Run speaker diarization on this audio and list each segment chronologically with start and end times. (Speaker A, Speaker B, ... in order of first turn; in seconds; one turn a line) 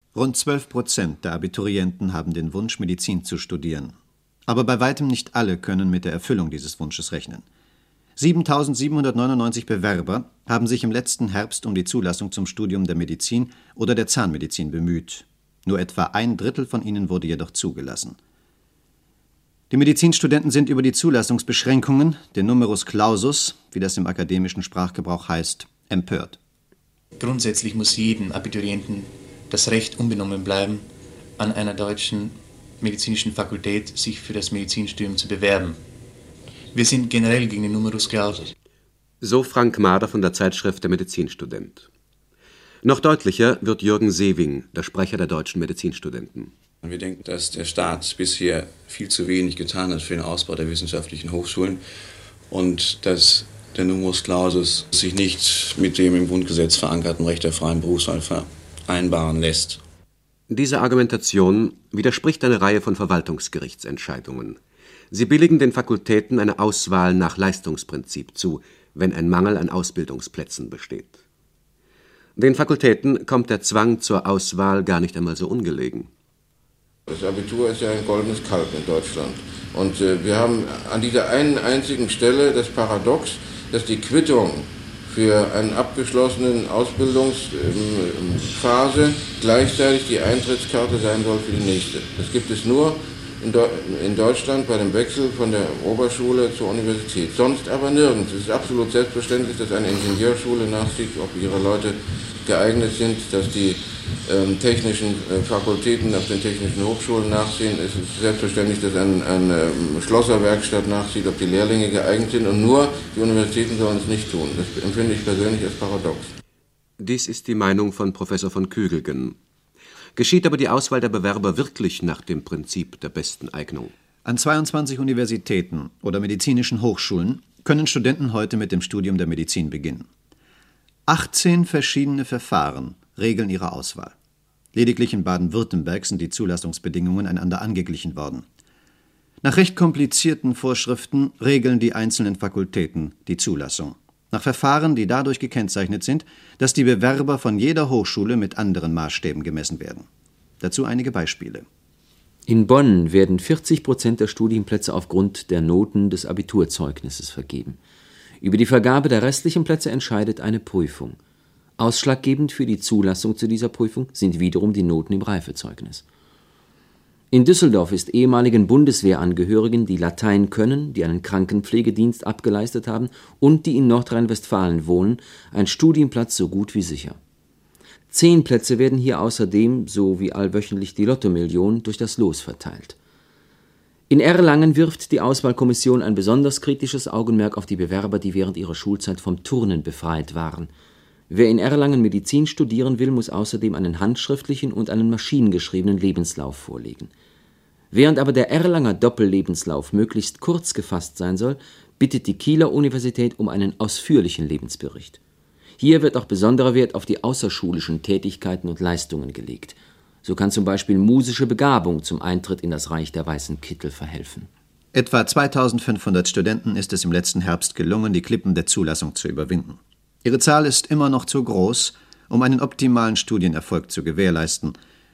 Speaker A: 0.1-3.9
Speaker A: 4.5-7.4
Speaker A: 8.2-18.1
Speaker A: 19.7-26.4
Speaker B: 27.2-30.9
Speaker B: 31.4-35.8
Speaker B: 36.7-38.5
Speaker C: 39.2-41.9
Speaker C: 42.8-46.5
Speaker D: 46.8-51.8
Speaker D: 52.5-59.8
Speaker C: 60.5-64.6
Speaker C: 65.1-71.2
Speaker C: 72.3-76.1
Speaker E: 77.1-116.3
Speaker C: 117.0-119.4
Speaker C: 120.2-123.9
Speaker A: 124.2-130.1
Speaker A: 131.1-134.1
Speaker A: 134.7-138.4
Speaker A: 139.4-150.1
Speaker A: 150.6-151.6
Speaker F: 152.5-157.8
Speaker F: 158.4-161.2
Speaker F: 161.8-166.0
Speaker F: 167.3-177.2
Speaker F: 178.1-182.9
Speaker F: 184.1-190.7
Speaker F: 191.3-197.1
Speaker F: 197.9-205.2
Speaker F: 205.8-214.5
Speaker A: 214.9-224.7